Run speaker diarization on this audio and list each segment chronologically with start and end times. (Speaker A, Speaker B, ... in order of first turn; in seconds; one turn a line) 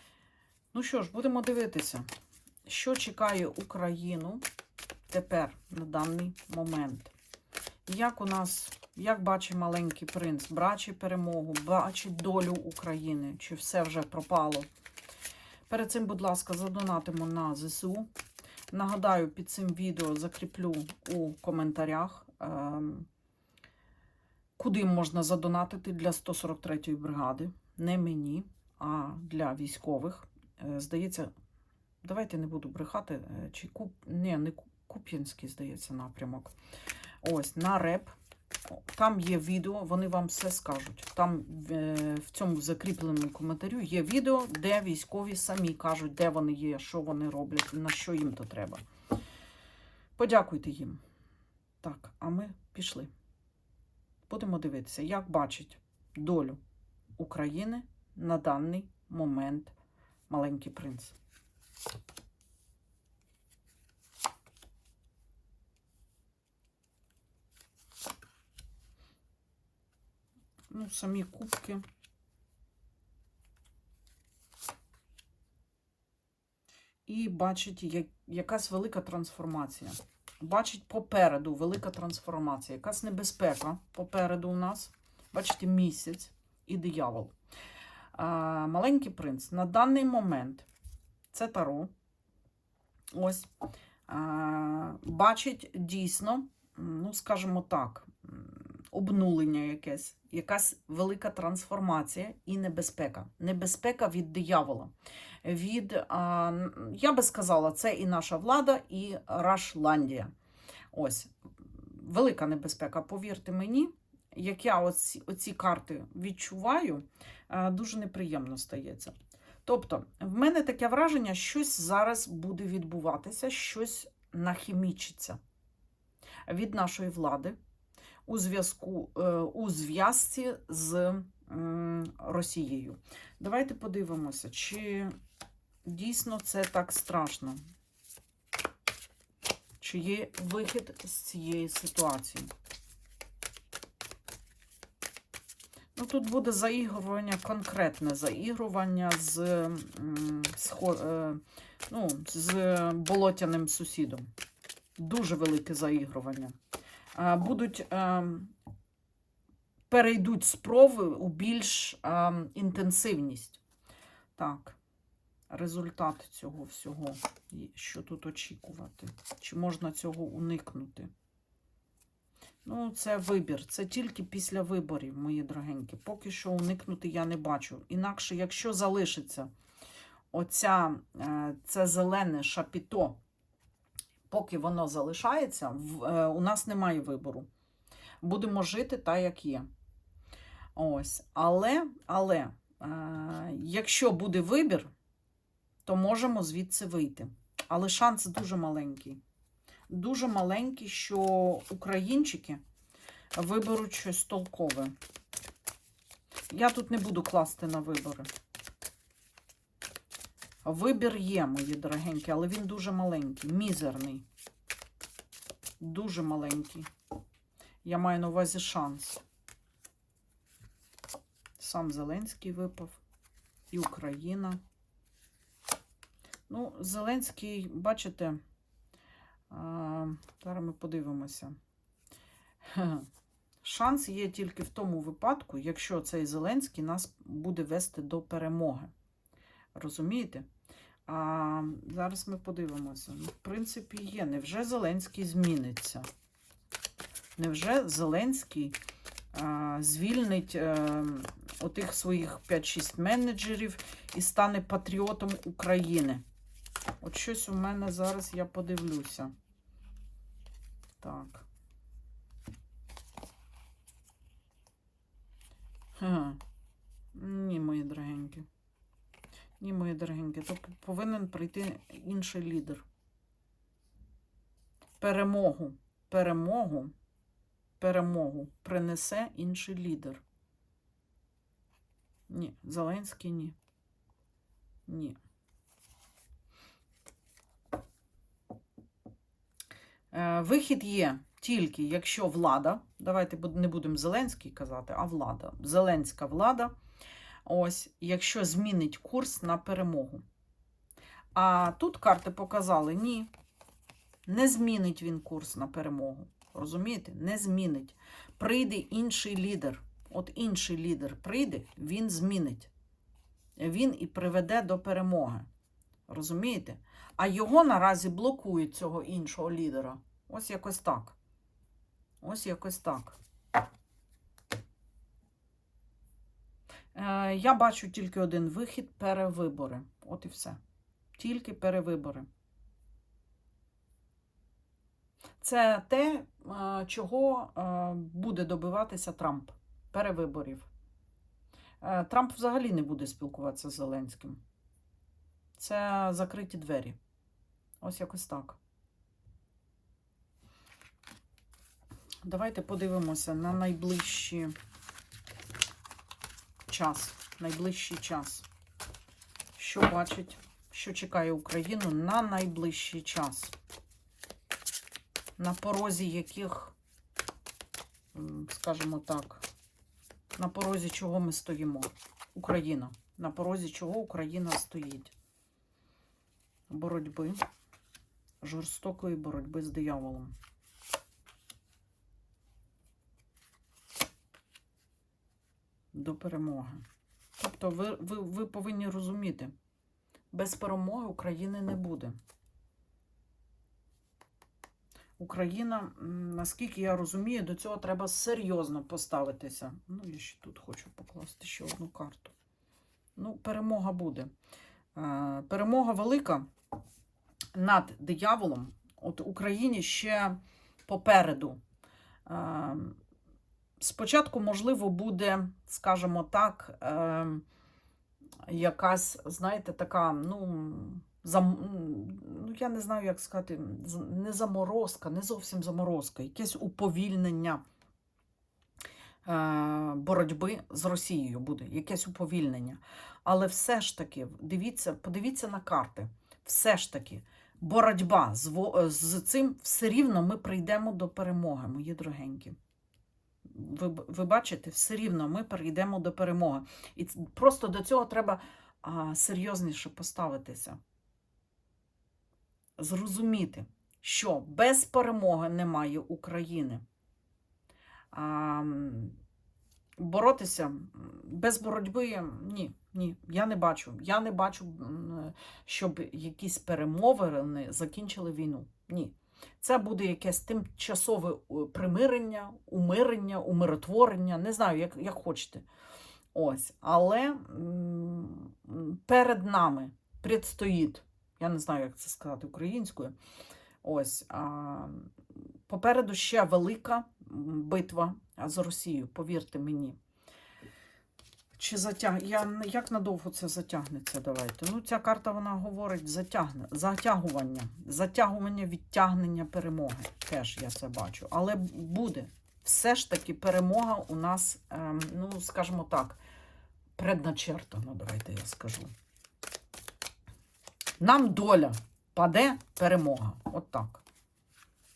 Speaker A: 0.7-2.1
Speaker A: 2.7-4.4
Speaker A: 5.1-7.1
Speaker A: 7.9-14.7
Speaker A: 15.7-18.1
Speaker A: 18.7-23.1
Speaker A: 24.6-31.3
Speaker A: 32.0-36.5
Speaker A: 37.2-38.1
Speaker A: 38.7-48.8
Speaker A: 50.2-51.0
Speaker A: 51.8-53.1
Speaker A: 54.3-56.6
Speaker A: 57.2-59.7
Speaker A: 60.3-61.1
Speaker A: 70.7-71.8
Speaker A: 77.1-87.3
Speaker A: 88.1-90.7
Speaker A: 91.3-91.9
Speaker A: 93.1-93.5
Speaker A: 94.1-104.9
Speaker A: 105.4-110.3
Speaker A: 110.9-125.4
Speaker A: 126.5-127.6
Speaker A: 128.3-135.2
Speaker A: 135.8-137.6
Speaker A: 139.8-142.5
Speaker A: 145.9-154.3
Speaker A: 155.0-156.5
Speaker A: 157.1-158.5
Speaker A: 159.9-163.6
Speaker A: 164.3-164.8
Speaker A: 165.5-171.1
Speaker A: 172.6-179.5
Speaker A: 180.3-183.2
Speaker A: 184.3-187.5
Speaker A: 188.2-189.7
Speaker A: 190.8-194.9
Speaker A: 195.8-199.2
Speaker A: 199.9-202.6
Speaker A: 203.3-204.9
Speaker A: 206.5-208.3
Speaker A: 210.6-214.2
Speaker A: 215.8-216.9
Speaker A: 217.8-219.2
Speaker A: 221.6-223.0
Speaker A: 223.7-224.6
Speaker A: 226.5-228.4
Speaker A: 229.5-231.6
Speaker A: 232.6-233.1
Speaker A: 233.6-238.9
Speaker A: 239.8-240.5
Speaker A: 241.1-246.1
Speaker A: 247.4-248.8
Speaker A: 249.3-256.2
Speaker A: 257.0-259.3
Speaker A: 261.0-261.4
Speaker A: 266.0-266.4
Speaker A: 267.1-268.4
Speaker A: 269.6-272.8
Speaker A: 275.0-276.9
Speaker A: 277.8-280.2
Speaker A: 282.3-283.6
Speaker A: 284.9-285.2
Speaker A: 290.1-296.8
Speaker A: 297.4-300.2
Speaker A: 301.3-303.3
Speaker A: 304.2-312.7
Speaker A: 313.6-315.5
Speaker A: 316.1-321.1
Speaker A: 322.2-323.2
Speaker A: 326.9-330.6
Speaker A: 331.2-332.3
Speaker A: 335.4-340.7
Speaker A: 341.8-344.4
Speaker A: 345.6-347.0
Speaker A: 347.8-348.6
Speaker A: 352.2-354.5
Speaker A: 356.7-358.4
Speaker A: 359.6-363.5
Speaker A: 365.4-366.8
Speaker A: 368.1-369.4
Speaker A: 370.4-375.1
Speaker A: 376.7-377.4
Speaker A: 378.4-380.3
Speaker A: 385.9-386.8
Speaker A: 387.4-389.5
Speaker A: 390.3-392.2
Speaker A: 395.2-402.3
Speaker A: 403.1-404.3
Speaker A: 404.9-406.5
Speaker A: 407.5-411.6
Speaker A: 412.2-413.0
Speaker A: 413.8-417.4
Speaker A: 418.4-427.6
Speaker A: 429.2-442.6
Speaker A: 443.4-450.8
Speaker A: 452.8-456.8
Speaker A: 458.1-459.2
Speaker A: 460.0-475.6
Speaker A: 476.3-483.1
Speaker A: 483.8-485.1
Speaker A: 485.7-490.0
Speaker A: 491.6-506.2
Speaker A: 507.0-508.9
Speaker A: 511.0-514.0